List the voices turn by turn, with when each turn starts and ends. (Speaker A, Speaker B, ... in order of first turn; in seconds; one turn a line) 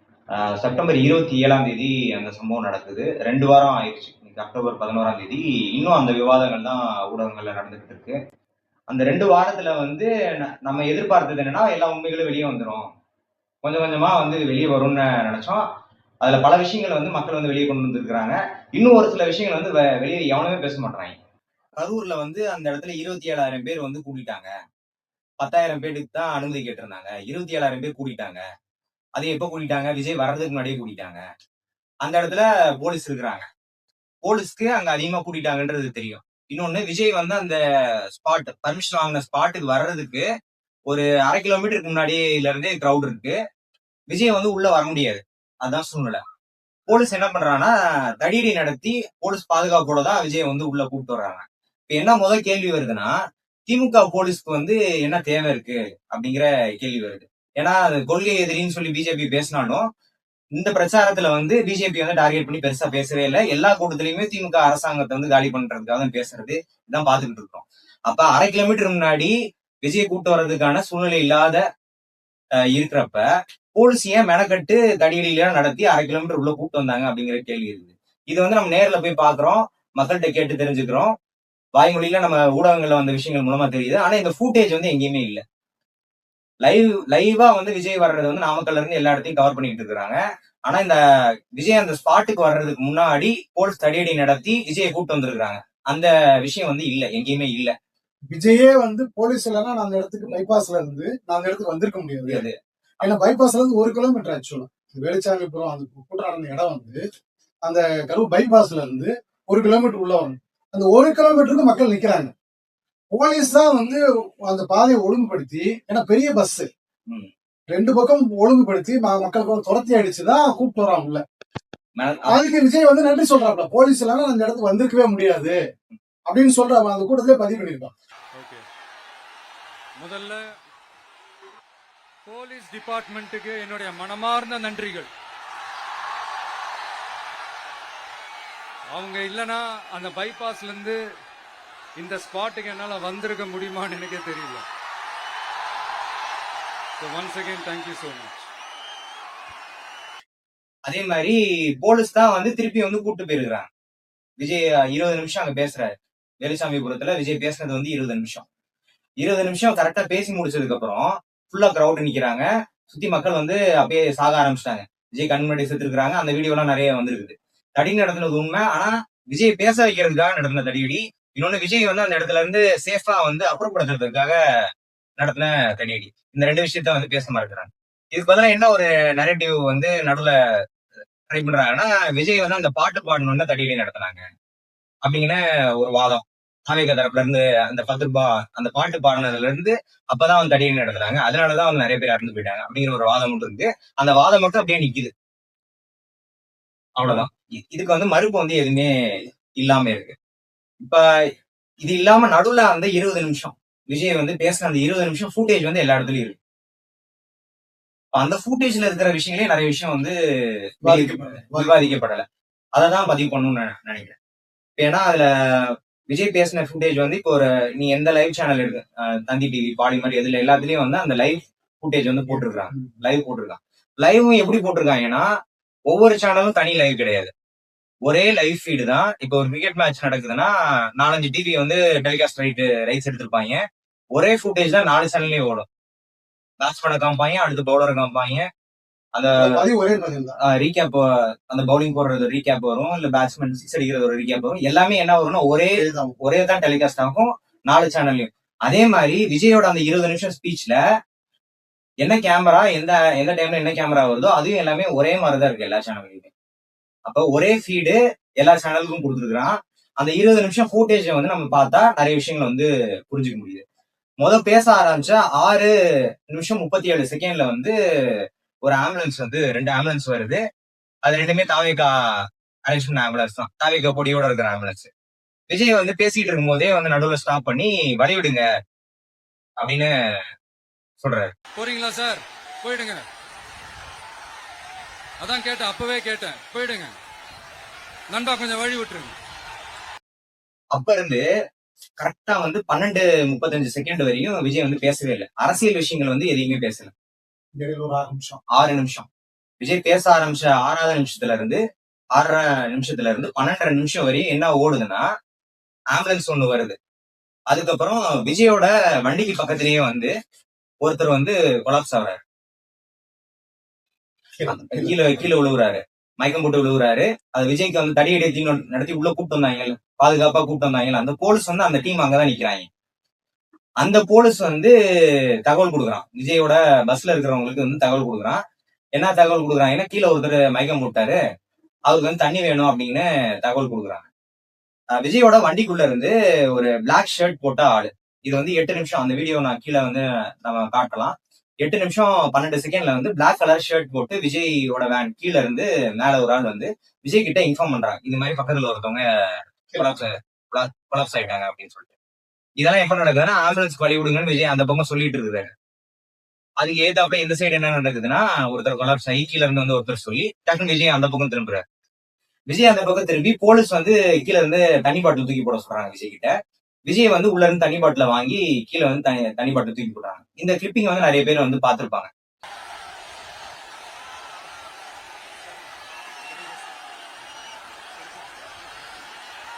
Speaker A: 0.3-8.2
Speaker A: 8.9-12.9
Speaker A: 13.6-15.6
Speaker A: 16.2-21.1
Speaker A: 21.8-24.5
Speaker A: 25.4-28.4
Speaker A: 29.1-31.2
Speaker A: 32.0-33.5
Speaker A: 34.2-37.6
Speaker A: 38.1-40.2
Speaker A: 40.9-43.3
Speaker A: 44.1-46.2
Speaker A: 46.9-53.1
Speaker A: 53.7-59.8
Speaker A: 60.6-71.6
Speaker A: 72.7-81.1
Speaker A: 81.7-85.4
Speaker A: 86.6-91.0
Speaker A: 91.6-97.7
Speaker B: 98.3-102.4
Speaker A: 102.3-103.1
Speaker B: 103.0-107.0
Speaker B: 107.6-112.3
Speaker B: 113.1-116.7
Speaker B: 117.7-121.2
Speaker A: 122.0-122.4
Speaker B: 122.3-125.6
Speaker B: 126.3-127.9
Speaker C: 128.3-128.6
Speaker C: 130.0-130.5
Speaker C: 132.2-135.1
Speaker C: 138.9-141.0
Speaker C: 142.0-144.7
Speaker C: 147.0-148.4
Speaker A: 150.8-153.7
Speaker A: 154.4-155.9
Speaker A: 156.4-158.4
Speaker A: 159.2-174.4
Speaker A: 175.2-180.3
Speaker A: 181.3-184.3
Speaker A: 185.0-195.1
Speaker A: 197.0-200.2
Speaker A: 201.8-206.4
Speaker A: 208.1-212.2
Speaker B: 210.8-211.8
Speaker A: 212.7-214.2
Speaker A: 214.8-225.3
Speaker A: 225.9-227.3
Speaker A: 228.0-233.6
Speaker A: 234.1-235.7
Speaker A: 236.6-238.5
Speaker A: 239.1-239.6
Speaker B: 239.4-240.3
Speaker A: 240.4-250.8
Speaker B: 245.7-246.1
Speaker A: 252.0-256.3
Speaker A: 257.1-263.6
Speaker A: 264.2-265.7
Speaker A: 266.3-267.7
Speaker A: 268.6-270.4
Speaker A: 271.0-274.9
Speaker A: 275.5-278.4
Speaker A: 279.6-279.9
Speaker A: 281.0-281.3
Speaker C: 281.5-283.0
Speaker C: 285.2-286.9
Speaker C: 288.1-289.1
Speaker A: 290.7-291.2
Speaker A: 292.0-296.9
Speaker B: 297.5-298.4
Speaker A: 298.5-299.1
Speaker A: 299.6-301.6
Speaker A: 302.1-305.0
Speaker A: 305.9-306.8
Speaker A: 307.5-310.1
Speaker A: 310.8-312.2
Speaker B: 314.4-315.1
Speaker A: 314.4-322.7
Speaker A: 323.8-324.7
Speaker A: 325.4-328.4
Speaker A: 328.9-331.2
Speaker A: 331.9-334.1
Speaker A: 334.9-349.0
Speaker A: 349.7-351.9
Speaker A: 352.6-355.5
Speaker A: 356.6-361.6
Speaker A: 362.5-366.3
Speaker A: 366.9-372.1
Speaker C: 376.2-376.6